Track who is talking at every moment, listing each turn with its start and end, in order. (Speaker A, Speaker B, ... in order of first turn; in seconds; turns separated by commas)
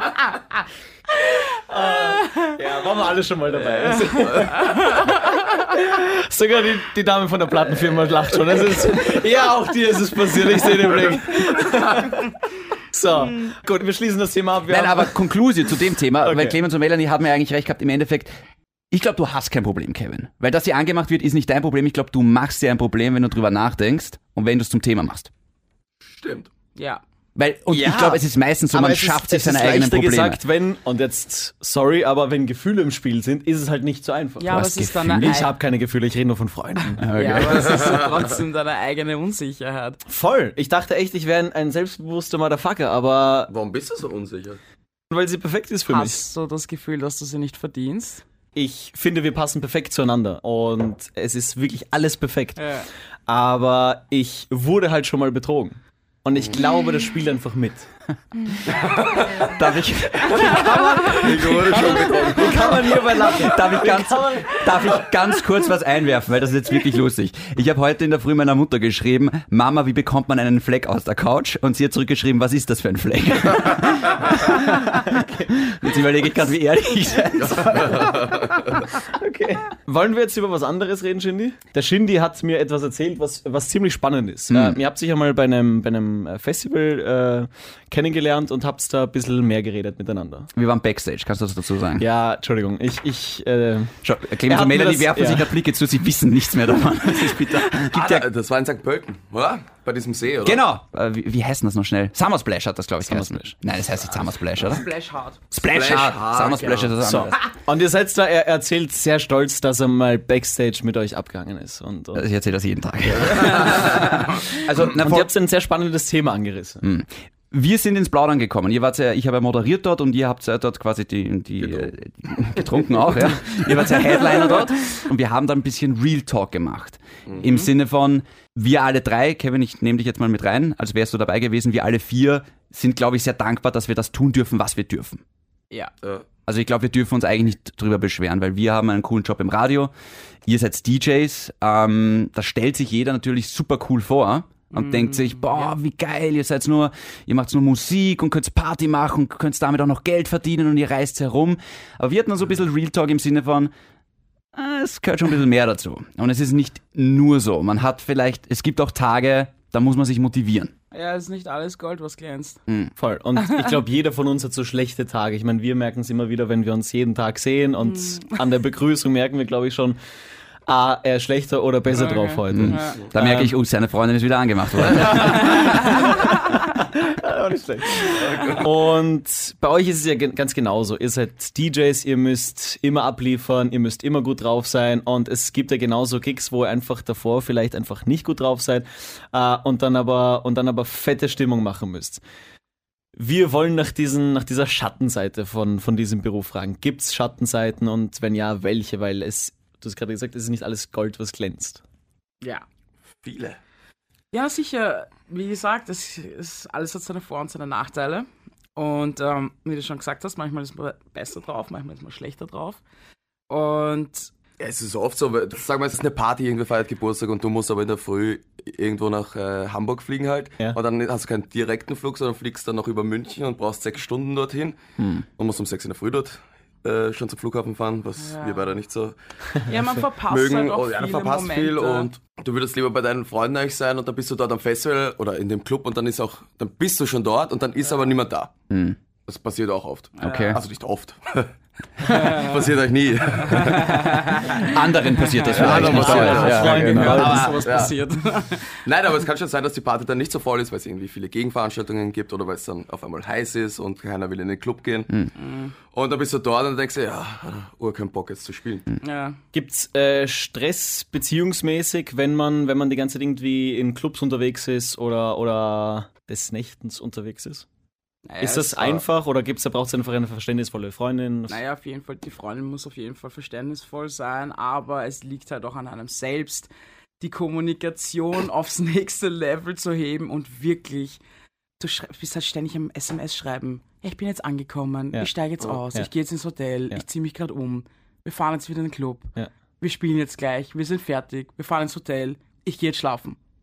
Speaker A: 1.6-12.3, Speaker B: 3.5-4.6, Speaker A: 12.9-15.2, Speaker C: 14.7-18.3, Speaker A: 16.2-16.6, Speaker C: 18.9-25.3, Speaker B: 26.1-26.5, Speaker D: 26.7-27.0, Speaker C: 27.4-30.4, Speaker A: 27.7-37.4, Speaker D: 34.4-35.5, Speaker C: 34.5-35.4, Speaker D: 37.0-40.0, Speaker C: 37.0-37.9, Speaker B: 37.6-38.0, Speaker A: 40.1-43.5, Speaker B: 43.5-44.6, Speaker A: 45.1-46.3, Speaker D: 45.9-48.2, Speaker A: 48.5-52.7, Speaker D: 52.6-52.9, Speaker A: 53.3-57.9, Speaker B: 58.8-59.2, Speaker C: 59.2-62.0, Speaker A: 60.1-65.1, Speaker B: 61.2-62.8, Speaker C: 62.6-78.4, Speaker A: 75.1-75.5, Speaker B: 77.4-78.8, Speaker A: 79.0-90.5, Speaker C: 84.5-84.8, Speaker C: 90.5-92.1, Speaker A: 92.0-95.5, Speaker C: 94.0-98.3, Speaker B: 97.7-100.6, Speaker C: 100.4-104.9, Speaker A: 103.0-103.4, Speaker D: 104.6-105.4, Speaker C: 105.5-107.4, Speaker B: 105.6-107.0, Speaker A: 107.0-112.2, Speaker C: 112.1-115.3, Speaker B: 113.3-113.8, Speaker A: 114.8-116.8, Speaker C: 116.8-135.2, Speaker D: 127.4-127.7, Speaker C: 136.4-139.9, Speaker C: 140.5-153.7, Speaker D: 144.7-145.7, Speaker C: 154.5-160.7, Speaker D: 160.9-162.6, Speaker C: 162.7-162.9, Speaker A: 163.0-170.0, Speaker D: 163.4-163.7, Speaker A: 170.7-173.6, Speaker D: 171.9-173.0, Speaker C: 172.5-176.1, Speaker A: 174.9-192.2, Speaker B: 178.1-178.7, Speaker A: 193.2-201.8, Speaker B: 203.2-203.6, Speaker D: 204.3-212.8, Speaker D: 213.5-214.3, Speaker B: 214.6-224.8, Speaker C: 225.0-225.2, Speaker B: 225.3-229.2, Speaker D: 228.2-228.7, Speaker D: 229.6-232.1, Speaker B: 230.3-238.5, Speaker C: 238.7-239.0, Speaker B: 239.3-244.2, Speaker D: 240.2-240.6, Speaker C: 240.2-240.6, Speaker D: 242.1-242.6, Speaker D: 243.5-244.6, Speaker C: 244.6-247.8, Speaker A: 245.5-247.6, Speaker B: 245.5-247.9, Speaker D: 245.6-248.8, Speaker B: 248.8-255.1, Speaker D: 255.3-255.7, Speaker B: 255.9-258.9, Speaker D: 259.0-259.4, Speaker A: 259.5-267.6, Speaker D: 268.3-269.0, Speaker A: 268.4-271.6, Speaker D: 271.5-281.2, Speaker D: 281.8-293.4